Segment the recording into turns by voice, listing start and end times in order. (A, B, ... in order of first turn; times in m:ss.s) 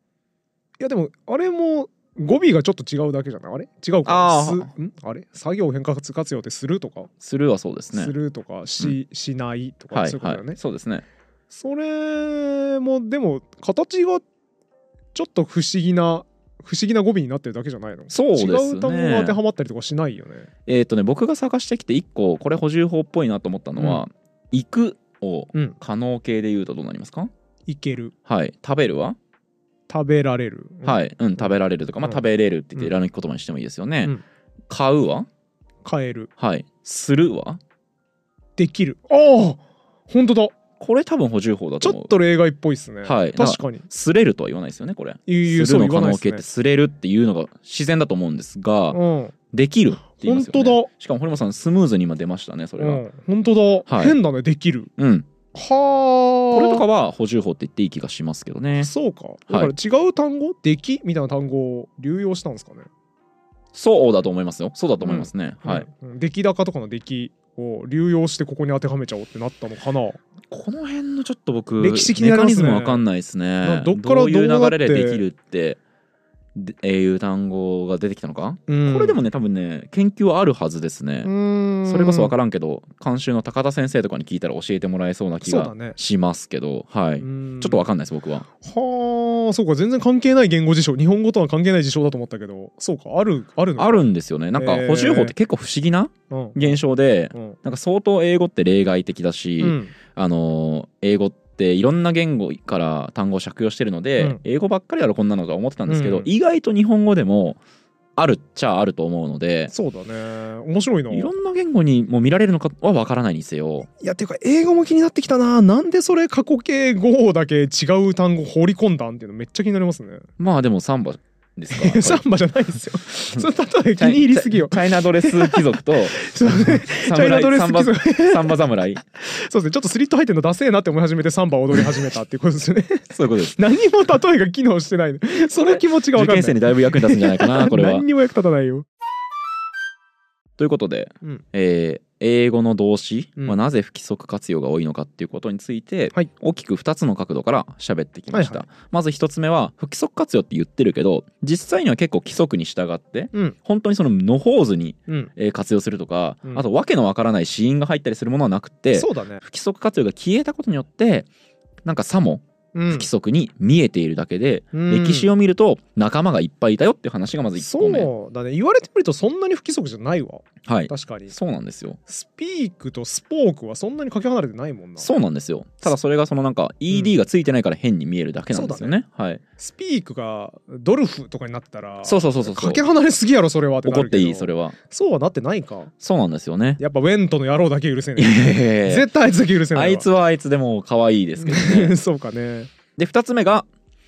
0:00.8-0:07.1 A
0:04.0-0:04.7 B
0:07.2-0:08.1 B
0:07.9-0:10.6 A
0:09.9-0:11.0 B
0:11.5-0:14.2 A
0:15.1-0:20.5 A
0:18.1-0:19.4 B
0:20.7-0:27.3 B
0:23.8-0:24.0 A
0:27.7-0:28.1 A
0:28.3-0:29.2 B
0:29.9-0:31.5 A
0:30.8-0:34.1 B
0:34.7-0:35.3 B
0:35.8-0:36.3 A
0:36.4-0:37.6 B
0:38.6-0:40.6 A
0:40.8-0:42.1 B
0:41.8-0:43.8 A
0:43.0-0:49.0 B
0:45.3-0:46.4 A
0:48.9-0:49.4 A
0:49.5-0:53.0 B
0:50.1-0:50.9 A
0:52.8-0:54.9 A
0:53.9-0:54.2 B
0:55.0-0:55.3 B
0:55.5-0:56.8 A
0:56.5-0:58.9 B
0:58.8-1:02.9 A
0:59.5-0:59.7 B
1:03.7-1:05.9 B
1:05.0-1:10.2 A
1:10.5-1:15.8 B
1:11.8-1:13.0 A
1:13.6-1:15.2 A
1:16.6-1:21.3 B
1:18.7-1:19.2 A
1:21.2-1:22.3 A
1:21.9-1:28.5 B
1:25.4-1:26.0 A
1:27.2-1:27.8 A
1:28.6-1:35.3 A
1:33.8-1:47.6 B
1:36.3-1:36.8 A
1:39.6-1:39.9 A
1:45.9-1:46.3 A
1:48.2-1:49.7 B
1:49.7-1:51.3 A
1:51.1-1:53.9 B
1:54.0-2:00.3 A
2:00.4-2:02.2 B
2:01.7-2:08.6 A
2:04.0-2:09.0 B
2:09.2-2:18.9 A
2:13.1-2:13.6 B
2:15.6-2:18.0 B
2:20.6-2:41.3 B
2:28.3-2:28.6 A
2:38.9-2:39.4 A
2:41.8-2:48.1 B
2:42.7-2:43.1 A
2:44.7-2:45.3 A
2:47.6-2:51.3 A
2:50.6-2:52.0 B
2:52.1-2:55.1 A
2:55.0-2:59.4 B
2:58.5-2:59.0 A
2:59.6-3:05.9 A
3:02.0-3:02.8 B
3:03.8-3:04.8 B
3:06.0-3:06.8 B
3:06.8-3:10.1 A
3:08.2-3:09.1 B
3:09.7-3:11.9 B
3:11.4-3:12.7 A
3:13.0-3:13.7 B